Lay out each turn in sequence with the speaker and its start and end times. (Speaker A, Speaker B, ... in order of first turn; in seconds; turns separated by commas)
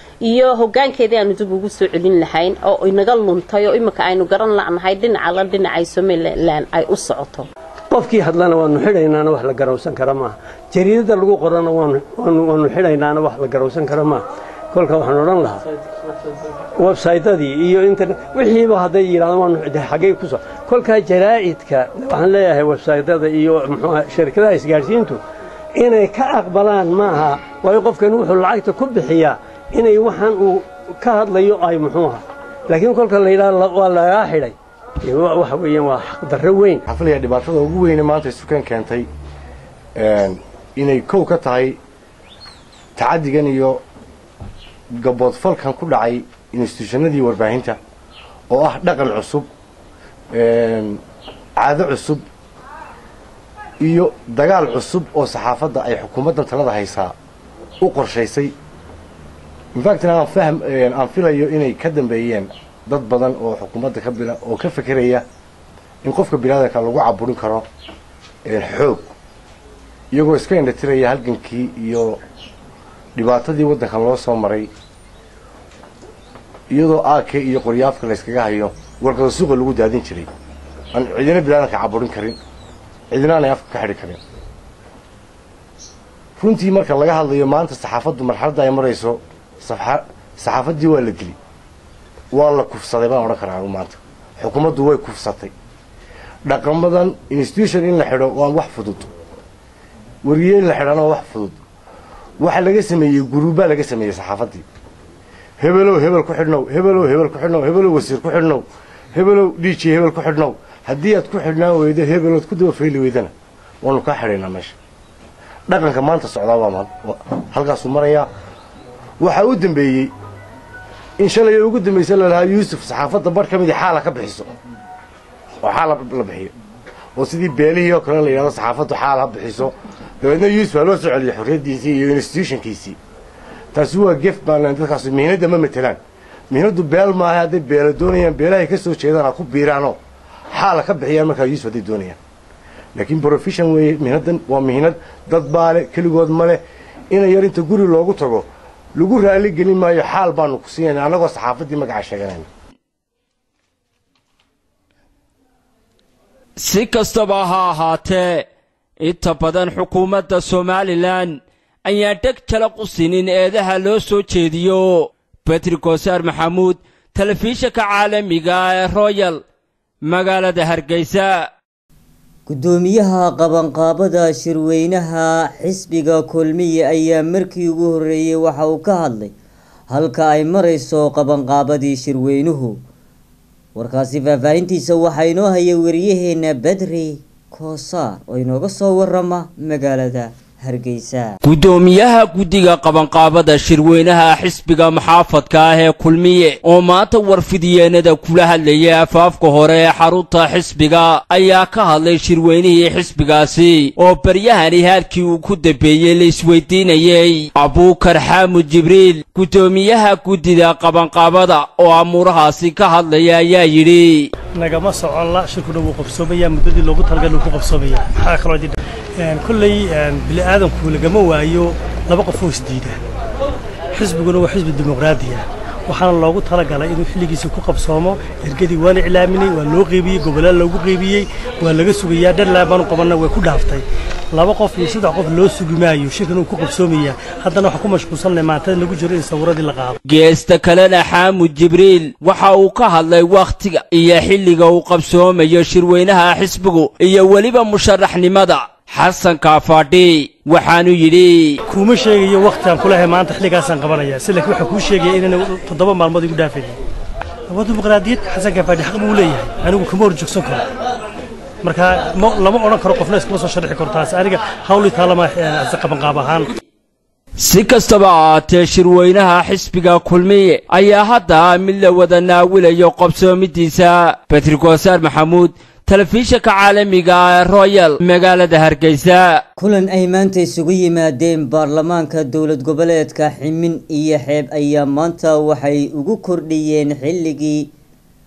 Speaker A: 0.2-7.5, Speaker B: 7.9-15.6, Speaker B: 16.8-25.2, Speaker B: 25.8-36.8, Speaker C: 36.9-39.1, Speaker C: 40.0-41.8, Speaker C: 43.0-43.8, Speaker C: 45.0-47.8, Speaker C: 48.5-49.5, Speaker C: 50.3-51.0, Speaker C: 51.6-52.2, Speaker C: 53.8-57.1, Speaker C: 57.8-58.5, Speaker C: 59.8-65.2, Speaker C: 66.0-67.7, Speaker C: 68.5-69.1, Speaker C: 70.1-72.2, Speaker C: 73.2-74.7, Speaker C: 76.7-80.3, Speaker C: 80.9-82.4, Speaker C: 83.1-84.2, Speaker C: 86.4-91.4, Speaker C: 92.3-95.5, Speaker C: 96.5-99.1, Speaker C: 100.2-101.6, Speaker C: 102.4-104.6, Speaker C: 105.6-114.8, Speaker C: 115.7-118.3, Speaker C: 119.2-120.1, Speaker C: 121.2-124.5, Speaker C: 125.6-126.5, Speaker C: 127.2-133.0, Speaker C: 133.7-136.0, Speaker C: 136.5-140.0, Speaker C: 140.5-142.2, Speaker C: 142.9-152.5, Speaker D: 156.6-158.5, Speaker D: 159.0-169.4, Speaker D: 170.1-171.5, Speaker E: 172.5-179.3, Speaker E: 179.9-182.8, Speaker E: 183.8-191.4, Speaker D: 191.4-214.3, Speaker F: 214.6-223.0, Speaker F: 223.9-240.0, Speaker D: 240.1-251.6, Speaker F: 251.7-256.8, Speaker F: 257.5-260.7, Speaker F: 261.6-266.6, Speaker D: 267.4-279.4, Speaker E: 279.6-287.7